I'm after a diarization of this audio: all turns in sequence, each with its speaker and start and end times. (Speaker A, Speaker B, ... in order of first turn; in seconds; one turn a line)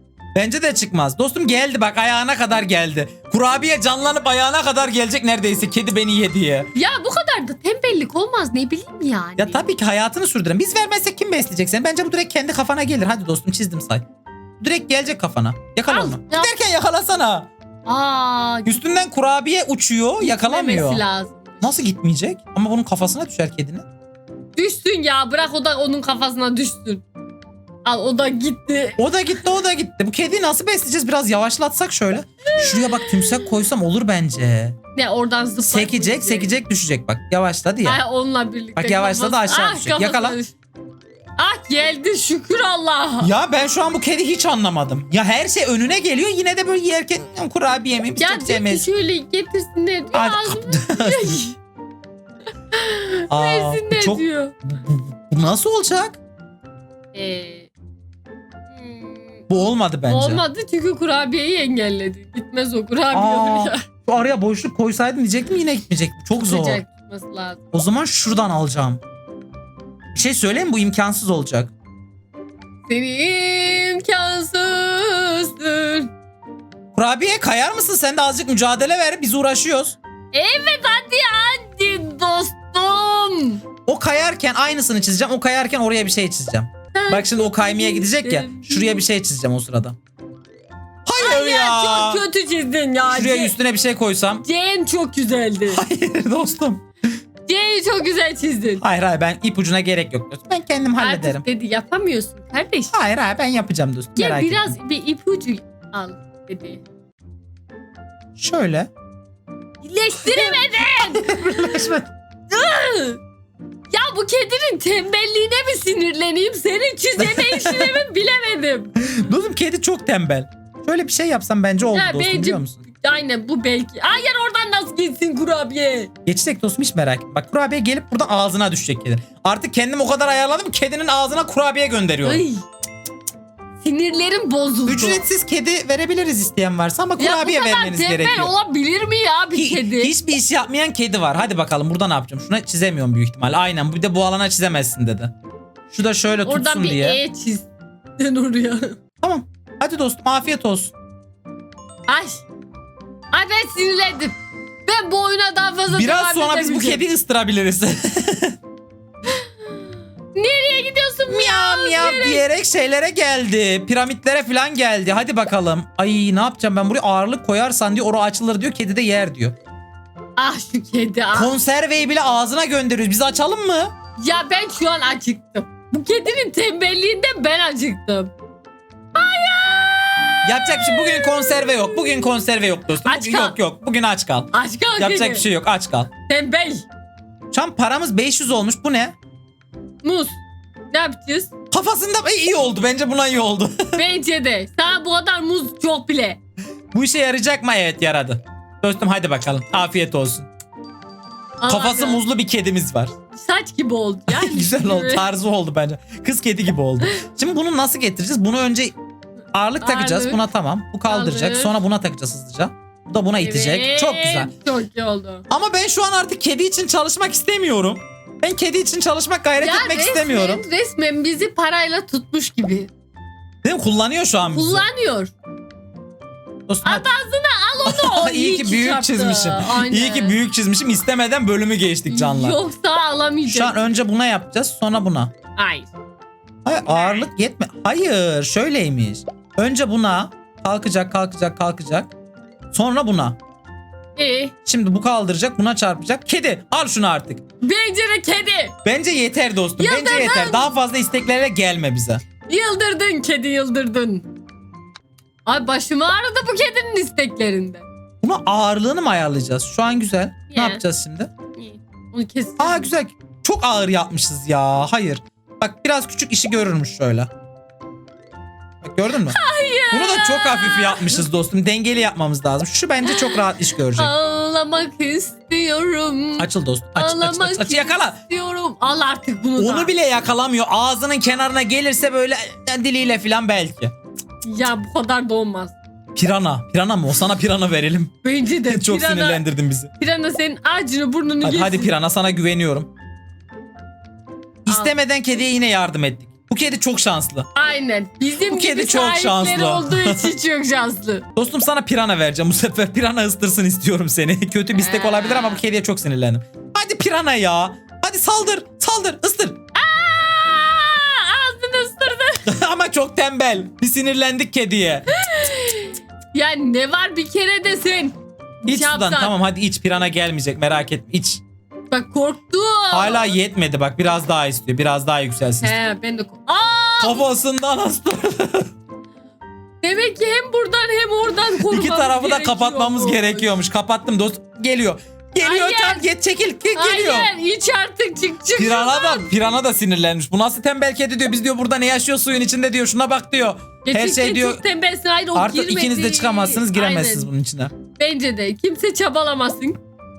Speaker A: 0.3-6.7
Speaker B: 6.7-9.6
Speaker A: 9.4-14.0
Speaker A: 14.6-17.5
Speaker B: 15.9-16.6
Speaker B: 17.9-18.8
Speaker A: 18.6-21.0
Speaker B: 20.2-21.9
Speaker A: 21.6-23.8
Speaker B: 24.6-27.0
Speaker B: 27.8-29.0
Speaker A: 29.0-34.8
Speaker B: 32.5-33.5
Speaker B: 34.9-36.6
Speaker A: 35.6-38.0
Speaker B: 37.8-40.5
Speaker A: 38.8-40.4
Speaker B: 41.4-43.3
Speaker A: 43.2-48.9
Speaker B: 48.2-51.6
Speaker A: 50.1-51.4
Speaker B: 52.7-54.5
Speaker A: 53.3-56.2
Speaker B: 57.1-57.7
Speaker B: 58.7-59.4
Speaker A: 59.5-60.4
Speaker B: 60.1-63.8
Speaker A: 63.1-66.8
Speaker B: 66.3-67.8
Speaker A: 67.7-69.0
Speaker A: 70.1-71.7
Speaker B: 72.9-76.1
Speaker A: 76.9-80.0
Speaker B: 80.3-83.6
Speaker A: 83.8-90.0
Speaker B: 86.9-89.0
Speaker A: 91.0-92.2
Speaker B: 91.2-93.5
Speaker A: 93.1-94.4
Speaker B: 94.4-95.8
Speaker A: 95.7-96.8
Speaker B: 97.5-98.8
Speaker A: 98.8-101.4
Speaker B: 101.0-102.9
Speaker A: 102.9-104.7
Speaker B: 104.2-106.8
Speaker A: 108.4-108.9
Speaker B: 109.8-111.9
Speaker A: 110.2-112.1
Speaker B: 112.5-113.2
Speaker B: 113.9-119.2
Speaker A: 117.2-117.9
Speaker A: 119.0-122.8
Speaker B: 121.9-126.1
Speaker A: 126.2-132.4
Speaker B: 132.2-132.6
Speaker B: 133.8-135.2
Speaker A: 134.9-138.5
Speaker B: 137.2-140.1
Speaker A: 139.5-145.3
Speaker A: 145.9-147.2
Speaker B: 146.4-149.0
Speaker A: 149.2-150.9
Speaker B: 152.1-152.4
Speaker B: 153.3-154.3
Speaker B: 154.8-157.0
Speaker A: 155.9-158.6
Speaker B: 160.3-162.4
Speaker A: 161.3-169.5
Speaker B: 170.4-171.5
Speaker A: 171.3-173.9
Speaker B: 174.2-178.3
Speaker B: 179.1-181.9
Speaker A: 180.4-186.1
Speaker B: 183.0-183.6
Speaker B: 184.5-185.4
Speaker B: 186.3-186.8
Speaker A: 187.5-189.1
Speaker B: 190.0-190.4
Speaker B: 190.9-191.5
Speaker A: 191.7-194.0
Speaker B: 193.9-196.4
Speaker A: 196.9-200.5
Speaker B: 201.6-202.2
Speaker A: 201.7-203.1
Speaker B: 203.3-205.3
Speaker A: 204.3-208.9
Speaker A: 209.5-214.5
Speaker B: 209.8-210.4
Speaker B: 211.1-211.8
Speaker B: 213.4-215.4
Speaker A: 215.5-220.6
Speaker B: 219.6-222.9
Speaker A: 223.6-224.8
Speaker B: 224.5-225.3
Speaker A: 226.7-227.1
Speaker B: 226.8-230.3
Speaker A: 227.8-232.6
Speaker B: 232.1-233.8
Speaker A: 233.5-235.3
Speaker B: 235.6-235.9
Speaker A: 236.6-242.1
Speaker A: 242.7-243.4
Speaker B: 244.2-244.5
Speaker A: 244.7-247.4
Speaker B: 247.6-248.7
Speaker A: 248.8-252.2
Speaker B: 249.8-250.7
Speaker B: 252.4-254.3
Speaker B: 255.4-257.9
Speaker A: 258.2-261.3
Speaker B: 260.5-260.8
Speaker B: 261.6-262.9
Speaker A: 262.6-267.3
Speaker A: 268.8-269.4
Speaker B: 269.3-271.2
Speaker A: 269.9-274.1
Speaker B: 273.0-273.4
Speaker B: 273.9-279.9
Speaker A: 276.4-278.2
Speaker A: 279.6-283.9
Speaker B: 284.4-285.8
Speaker A: 286.1-288.1
Speaker B: 288.2-289.4
Speaker A: 288.7-289.9
Speaker B: 290.0-291.9
Speaker A: 291.4-292.9
Speaker A: 294.6-297.5
Speaker B: 294.7-294.9
Speaker B: 297.5-301.2
Speaker A: 298.4-300.3
Speaker A: 301.4-309.6
Speaker B: 304.8-305.6
Speaker B: 309.7-312.4
Speaker A: 312.4-315.1
Speaker B: 315.1-319.3
Speaker A: 318.6-321.4
Speaker B: 321.9-323.3
Speaker A: 322.9-325.7
Speaker B: 325.6-327.3
Speaker A: 327.0-328.7
Speaker B: 329.8-333.5
Speaker A: 331.6-337.3
Speaker B: 335.4-336.1
Speaker B: 336.7-339.3
Speaker A: 338.5-344.6
Speaker B: 343.8-347.3
Speaker A: 345.3-347.7
Speaker B: 347.9-349.8